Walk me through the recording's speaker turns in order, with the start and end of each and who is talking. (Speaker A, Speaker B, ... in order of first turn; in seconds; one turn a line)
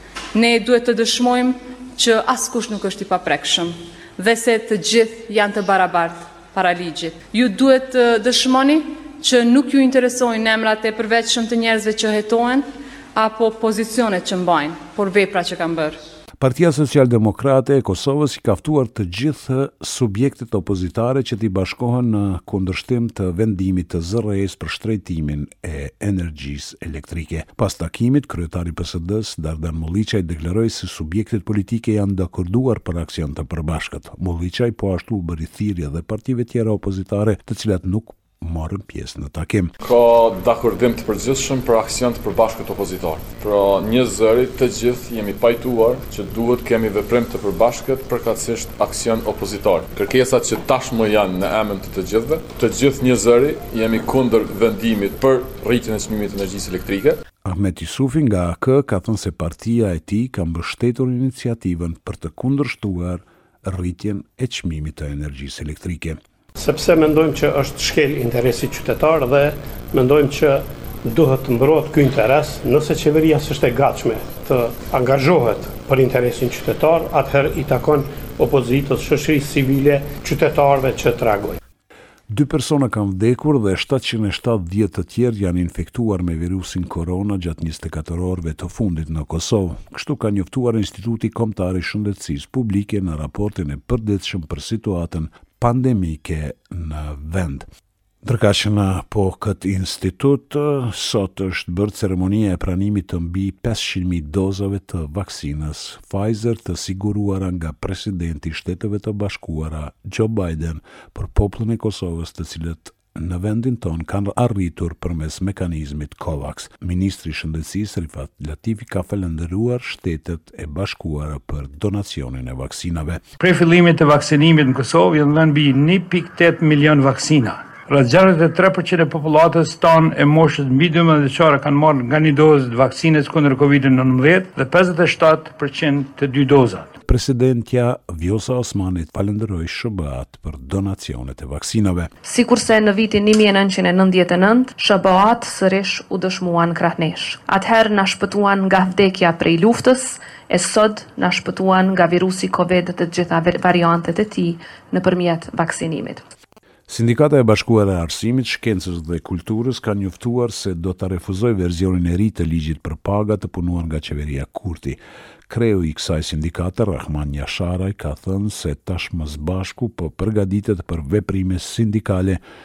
Speaker A: 0.3-12.6
Speaker A: 13.2-16.0
Speaker B: 16.4-39.7
Speaker C: 39.8-57.2
Speaker B: 57.5-66.2
Speaker D: 66.5-81.6
Speaker B: 82.3-97.7
Speaker B: 98.2-123.2
Speaker E: 123.4-136.9
Speaker B: 137.1-142.1
Speaker F: 142.2-156.3
Speaker B: 156.9-172.4